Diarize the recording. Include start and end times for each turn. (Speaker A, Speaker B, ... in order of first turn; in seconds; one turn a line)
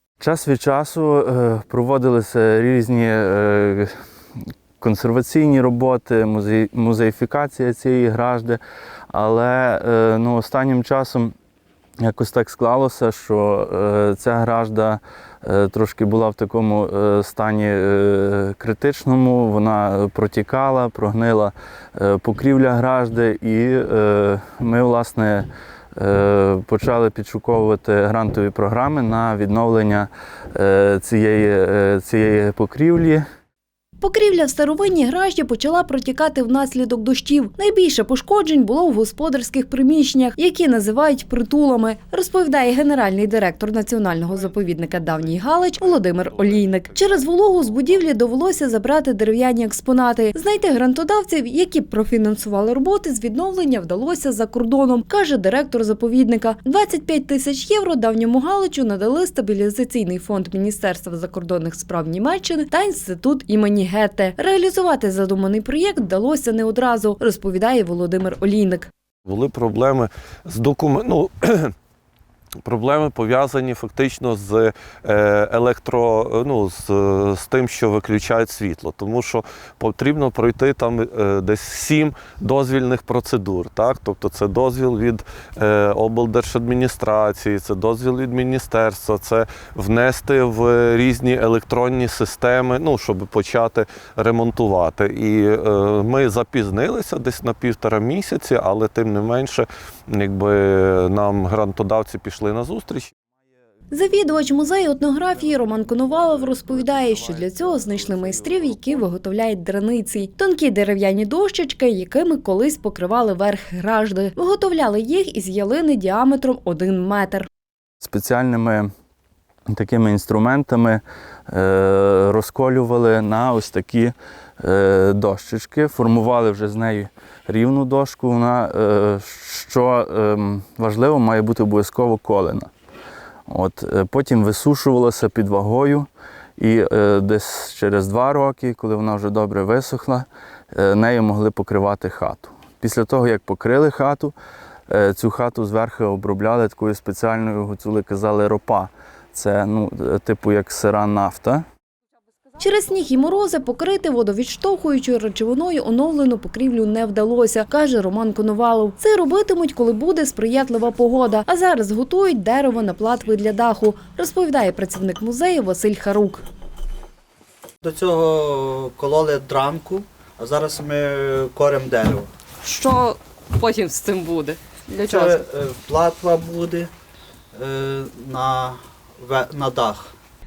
Speaker A: 0.2-3.9
Speaker A: 4.8-8.6
Speaker A: 9.1-11.3
Speaker A: 12.0-33.2
Speaker B: 34.0-68.9
Speaker C: 44.3-48.0
Speaker C: 69.3-71.7
Speaker C: 72.6-103.2
Speaker B: 103.9-117.5
Speaker C: 106.3-108.9
Speaker A: 118.0-118.9
Speaker A: 119.7-132.7
Speaker A: 133.5-144.4
Speaker A: 144.9-151.7
Speaker B: 152.6-166.4
Speaker D: 167.8-172.3
Speaker E: 172.6-175.4
Speaker D: 175.1-176.9
Speaker D: 177.6-180.1